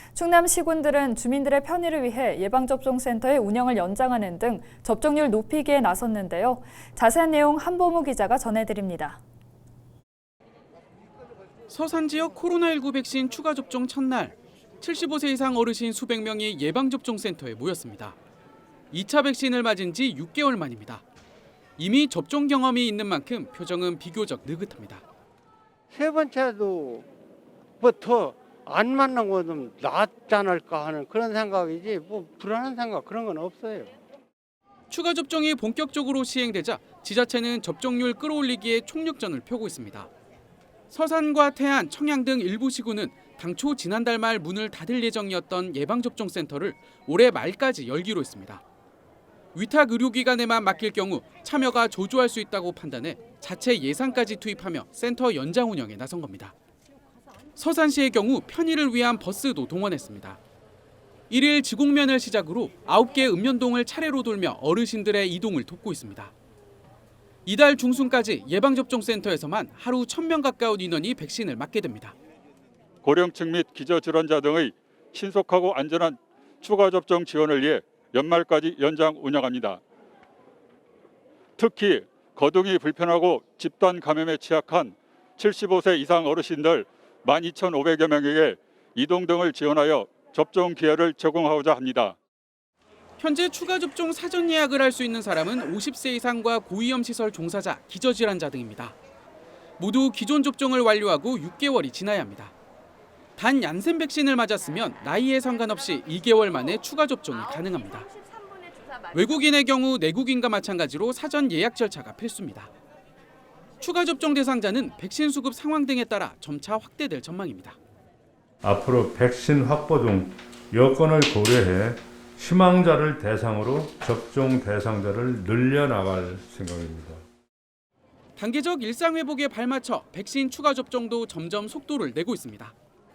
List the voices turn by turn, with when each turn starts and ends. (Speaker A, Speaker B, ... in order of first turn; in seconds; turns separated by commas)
Speaker A: 0.1-9.2, Speaker B: 11.7-18.2, Speaker B: 18.9-21.0, Speaker B: 21.8-25.0, Speaker C: 25.9-27.1, Speaker C: 27.8-28.7, Speaker C: 29.8-31.2, Speaker C: 32.0-33.3, Speaker B: 34.9-40.1, Speaker B: 40.9-48.6, Speaker B: 49.5-56.5, Speaker B: 57.6-60.4, Speaker B: 61.3-66.3, Speaker B: 67.5-72.1, Speaker D: 73.0-79.8, Speaker D: 81.6-92.2, Speaker B: 93.2-99.0, Speaker B: 99.8-102.5, Speaker B: 103.4-108.1, Speaker B: 109.1-112.7, Speaker B: 113.8-117.8, Speaker E: 118.6-127.2, Speaker B: 128.4-132.7